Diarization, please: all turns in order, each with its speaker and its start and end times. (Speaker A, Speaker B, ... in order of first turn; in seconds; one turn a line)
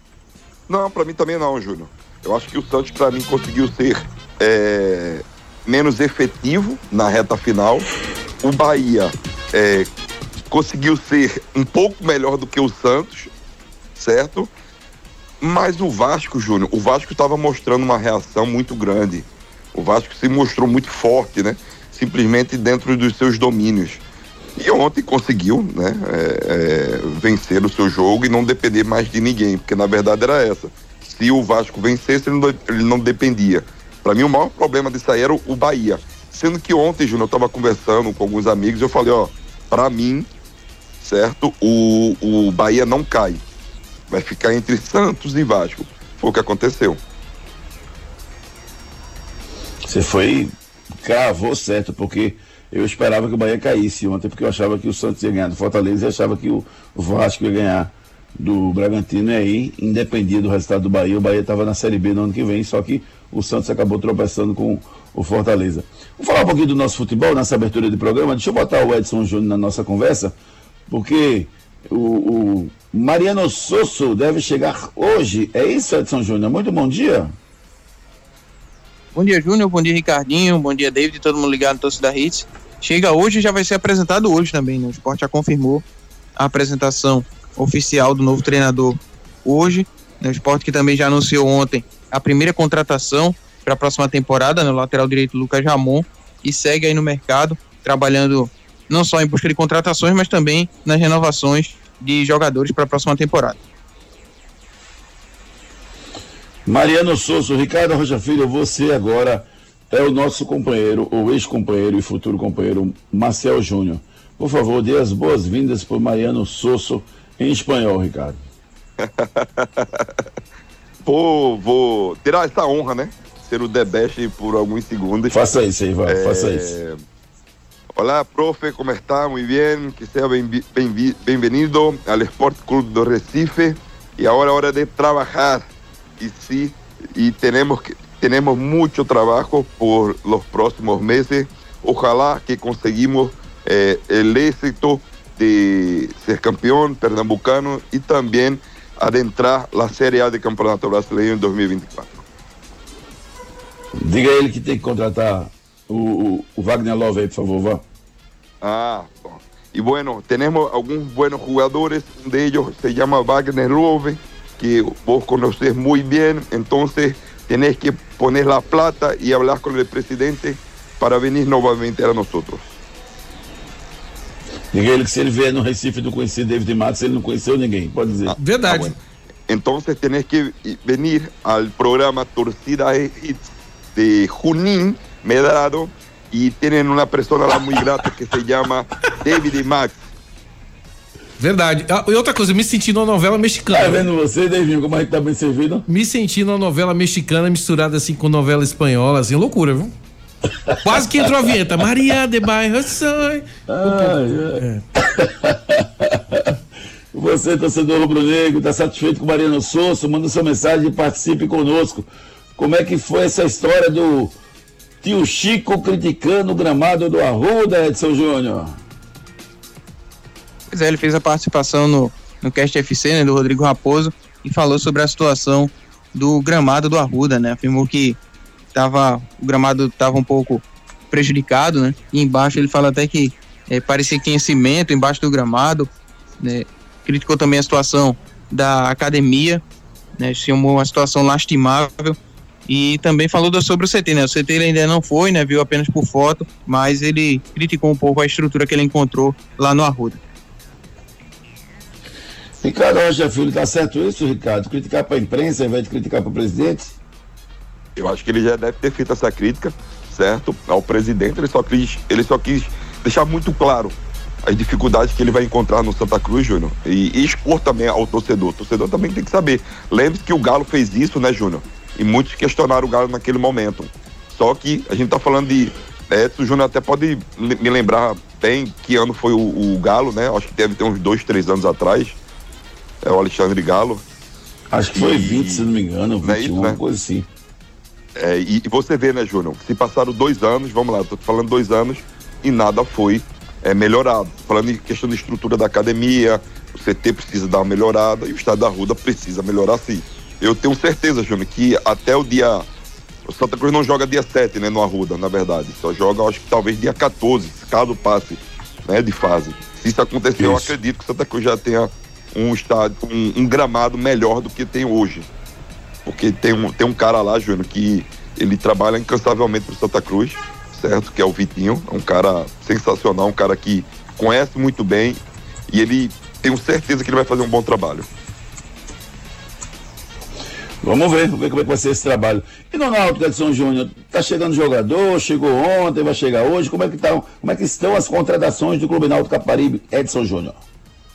Speaker A: 0.7-7.9
Speaker A: 8.4-9.9
Speaker A: 10.5-13.3
Speaker A: 13.9-14.5
Speaker A: 15.4-24.0
Speaker A: 24.6-40.3
Speaker A: 41.0-43.4
Speaker A: 44.1-47.0
Speaker B: 49.8-50.5
Speaker B: 51.0-70.3
Speaker B: 70.9-77.3
Speaker C: 79.1-85.8
Speaker C: 86.4-103.6
Speaker B: 106.7-118.4
Speaker A: 119.0-120.1
Speaker A: 121.0-125.3
Speaker B: 125.3-126.7
Speaker A: 126.0-127.0
Speaker A: 127.9-135.7
Speaker A: 136.2-152.2
Speaker B: 154.0-157.8
Speaker A: 158.6-172.7
Speaker B: 174.7-178.3
Speaker A: 178.2-178.9
Speaker D: 178.3-178.9
Speaker A: 179.5-190.0
Speaker D: 191.4-194.1
Speaker B: 193.7-195.8
Speaker D: 195.9-199.9
Speaker B: 200.7-201.3
Speaker D: 200.8-204.8
Speaker B: 203.7-206.6
Speaker B: 207.1-214.3
Speaker B: 215.0-218.8
Speaker C: 220.7-228.2
Speaker C: 228.7-235.9
Speaker C: 236.4-239.6
Speaker C: 240.2-250.2
Speaker B: 252.6-256.9
Speaker A: 258.0-282.2
Speaker A: 283.0-284.0
Speaker B: 284.7-287.3
Speaker A: 284.9-285.6
Speaker A: 286.2-286.8
Speaker A: 288.1-302.6
Speaker A: 303.2-315.3
Speaker B: 310.4-310.7
Speaker A: 316.1-325.2
Speaker A: 325.7-328.1
Speaker B: 330.8-340.6